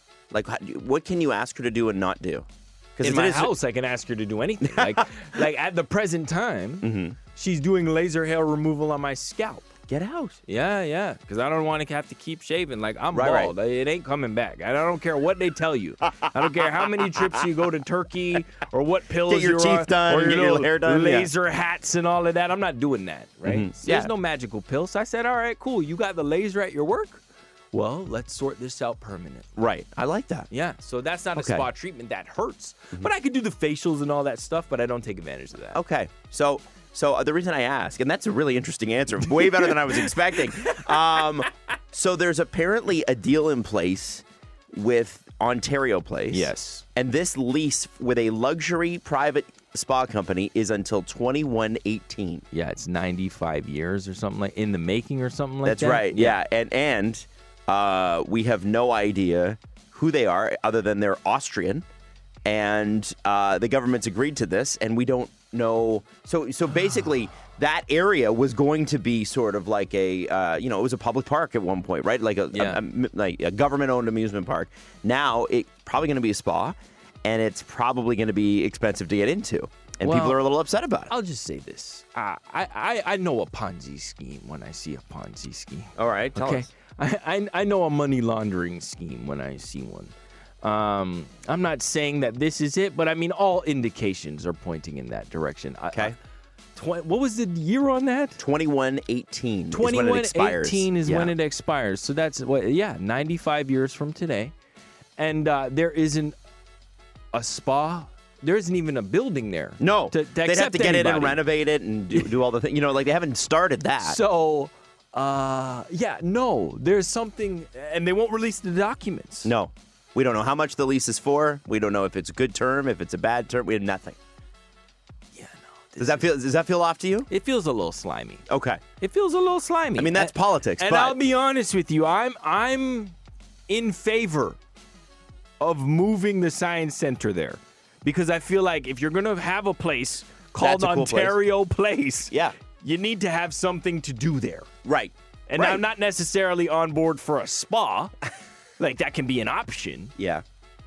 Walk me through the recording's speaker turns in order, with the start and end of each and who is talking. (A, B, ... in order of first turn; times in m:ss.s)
0:00.3-0:03.5 A
0:03.0-0:09.7 B
0:04.6-0:05.4 A
0:06.8-0:07.2 A
0:09.9-0:10.4 A
0:10.5-0:29.5 B
0:13.1-0:13.5 A
0:16.2-0:16.7 A
0:19.2-0:21.3 A
0:23.4-0:24.1 A
0:29.6-0:30.5 A
0:30.5-0:35.8 B
0:31.4-0:31.7 A
0:35.7-0:52.4 A
0:40.6-0:41.1 B
0:46.3-0:46.8 B
0:52.5-0:56.4 B
0:55.6-1:01.8 A
1:02.4-1:21.1 A
1:12.5-1:12.8 B
1:20.0-1:20.4 B
1:21.1-1:36.2 B
1:26.0-1:26.7 A
1:35.9-1:36.2 A
1:36.8-1:38.4 B
1:38.4-1:41.3 A
1:39.7-1:44.5 B
1:45.2-1:46.3 B
1:47.3-1:51.4 B
1:49.8-1:54.2 A
1:52.1-1:52.4 B
1:54.0-1:59.5 B
1:59.4-2:04.2 A
2:05.3-2:06.3 B
2:06.0-2:07.3 A
2:07.3-2:08.4 B
2:08.5-2:08.8 A
2:09.0-2:13.1 B
2:10.0-2:11.2 A
2:13.7-2:14.6 B
2:15.6-2:24.7 B
2:20.6-2:21.4 A
2:22.3-2:22.6 A
2:24.8-2:25.8 A
2:25.5-2:28.2 B
2:28.8-2:30.1 B
2:30.2-2:30.4 A